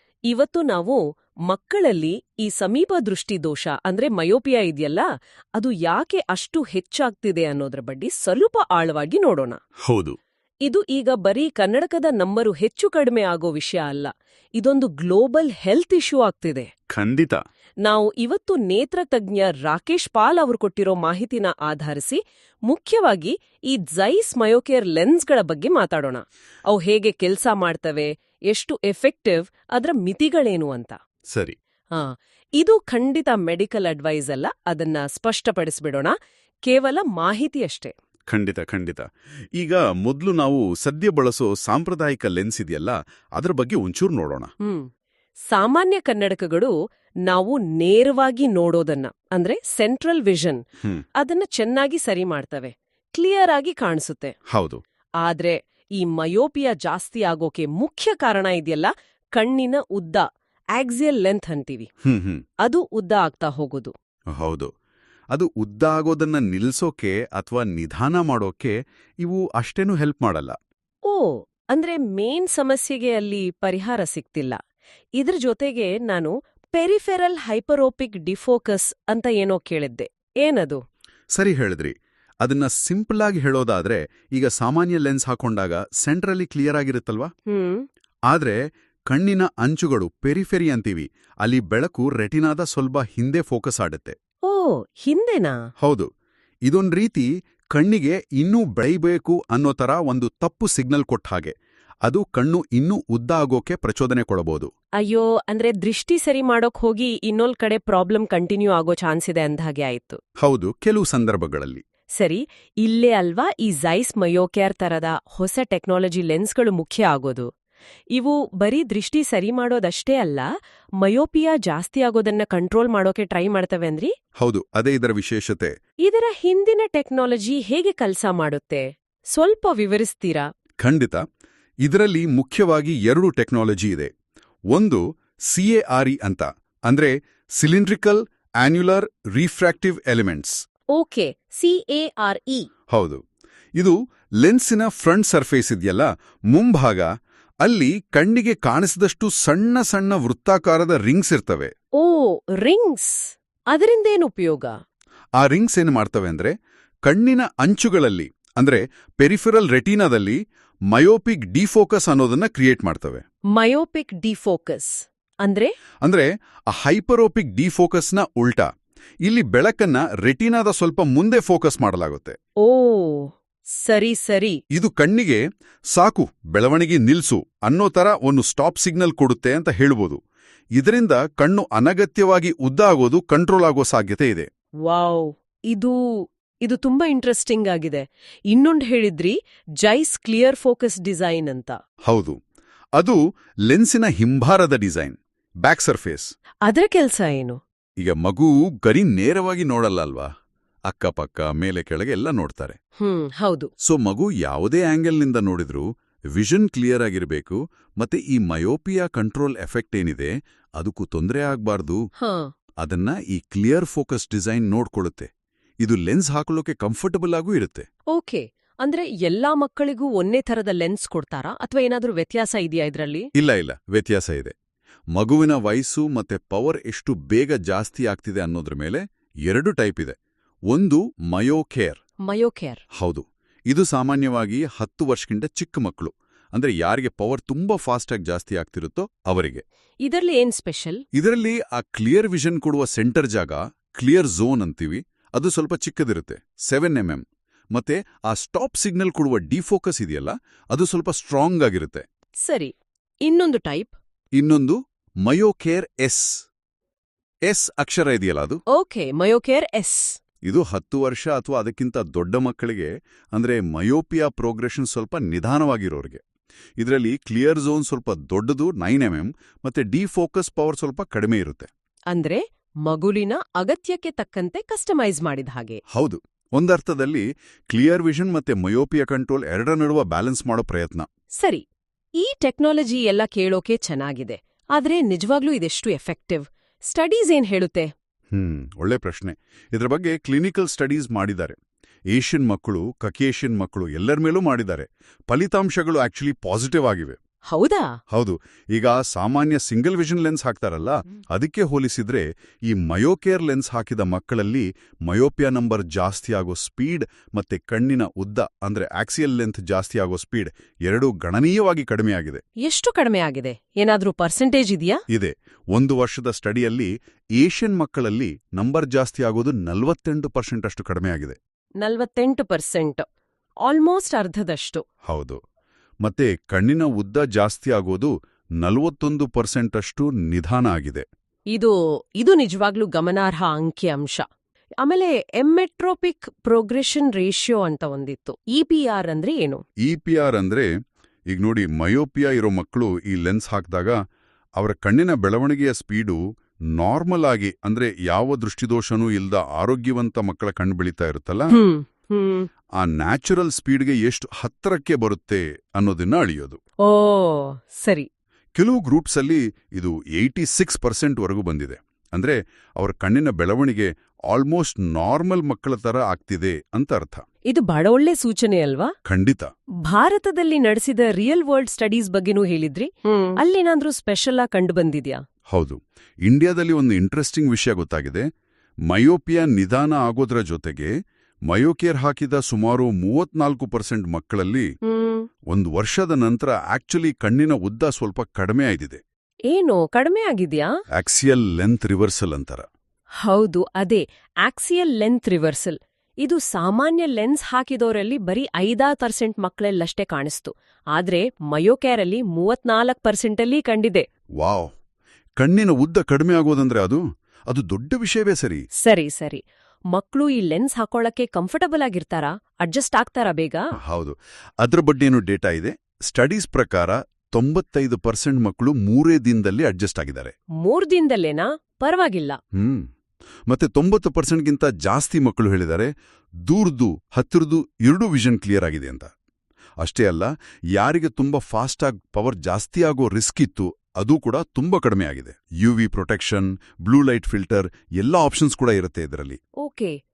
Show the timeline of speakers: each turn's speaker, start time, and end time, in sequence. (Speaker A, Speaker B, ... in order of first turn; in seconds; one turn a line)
Speaker A: 0.3-9.6
Speaker B: 9.9-10.2
Speaker A: 10.7-16.7
Speaker B: 16.9-17.4
Speaker A: 17.8-31.0
Speaker A: 31.9-36.1
Speaker A: 36.7-37.9
Speaker B: 38.3-44.5
Speaker A: 44.6-44.9
Speaker A: 45.5-46.7
Speaker A: 47.3-50.6
Speaker A: 51.2-54.3
Speaker B: 54.5-54.8
Speaker A: 55.2-61.9
Speaker B: 62.0-62.4
Speaker A: 62.6-63.9
Speaker B: 64.3-64.7
Speaker B: 65.3-70.6
Speaker A: 71.1-74.6
Speaker A: 75.2-80.8
Speaker B: 81.3-87.3
Speaker A: 87.5-87.8
Speaker B: 88.3-94.2
Speaker A: 94.5-95.6
Speaker B: 95.8-96.1
Speaker B: 96.7-101.5
Speaker B: 102.0-104.7
Speaker A: 105.0-110.2
Speaker B: 110.4-111.8
Speaker A: 112.2-117.5
Speaker A: 118.1-120.5
Speaker A: 121.0-124.1
Speaker B: 124.4-125.7
Speaker A: 126.1-130.5
Speaker B: 130.8-131.2
Speaker B: 131.8-134.1
Speaker B: 134.7-140.6
Speaker A: 140.9-142.7
Speaker B: 142.9-143.2
Speaker B: 143.8-147.1
Speaker B: 147.6-151.7
Speaker A: 152.0-154.7
Speaker B: 155.4-156.5
Speaker B: 157.1-160.4
Speaker B: 160.9-163.2
Speaker A: 163.6-165.7
Speaker B: 166.0-168.7
Speaker B: 169.2-172.4
Speaker A: 172.6-173.3
Speaker A: 173.8-174.6
Speaker B: 174.7-175.4
Speaker B: 175.9-180.2
Speaker B: 180.8-184.5
Speaker A: 184.9-186.0
Speaker A: 186.7-191.8
Speaker B: 192.1-192.4
Speaker B: 193.0-196.3
Speaker A: 196.7-197.6
Speaker B: 198.0-200.3
Speaker B: 200.9-202.8
Speaker A: 203.0-203.7
Speaker B: 203.8-212.0
Speaker A: 212.2-212.5
Speaker B: 212.8-215.3
Speaker B: 215.8-217.9
Speaker A: 218.1-223.3
Speaker B: 223.4-224.5
Speaker B: 225.1-230.2
Speaker B: 230.7-232.0
Speaker A: 232.3-232.8
Speaker B: 233.0-239.6
Speaker A: 240.0-241.0
Speaker B: 241.1-252.1
Speaker A: 252.4-254.0
Speaker B: 254.4-256.4
Speaker B: 257.5-258.6
Speaker A: 258.7-260.2
Speaker B: 260.4-266.2
Speaker B: 266.8-271.7
Speaker A: 272.1-275.8
Speaker B: 275.9-281.1
Speaker A: 281.4-281.6
Speaker A: 282.2-287.9
Speaker B: 288.3-291.6
Speaker B: 292.1-297.2
Speaker A: 297.5-298.0
Speaker B: 298.1-312.4
Speaker A: 312.6-315.0
Speaker B: 315.1-321.4
Speaker A: 321.8-323.1
Speaker A: 323.7-324.9
Speaker B: 325.1-325.4
Speaker B: 326.0-331.1
Speaker A: 331.5-334.3
Speaker A: 334.8-339.6
Speaker B: 339.8-340.7
Speaker B: 341.3-344.0
Speaker B: 344.6-346.2
Speaker B: 346.8-351.6
Speaker A: 351.5-352.5
Speaker B: 352.8-356.6
Speaker A: 356.9-358.1
Speaker B: 358.6-367.2
Speaker A: 367.5-368.9
Speaker B: 369.1-369.5
Speaker A: 369.9-375.2
Speaker B: 375.5-378.3
Speaker B: 378.9-380.9
Speaker B: 381.5-384.7
Speaker A: 384.8-385.3
Speaker B: 385.5-389.0
Speaker A: 389.5-390.7
Speaker B: 391.0-392.7
Speaker A: 393.2-404.1
Speaker B: 404.4-404.7
Speaker B: 405.4-408.6
Speaker A: 408.8-413.7
Speaker B: 413.8-420.3
Speaker A: 420.6-422.4
Speaker B: 422.5-422.9
Speaker B: 423.5-425.9
Speaker B: 426.5-429.1
Speaker B: 429.8-439.4
Speaker A: 439.6-440.0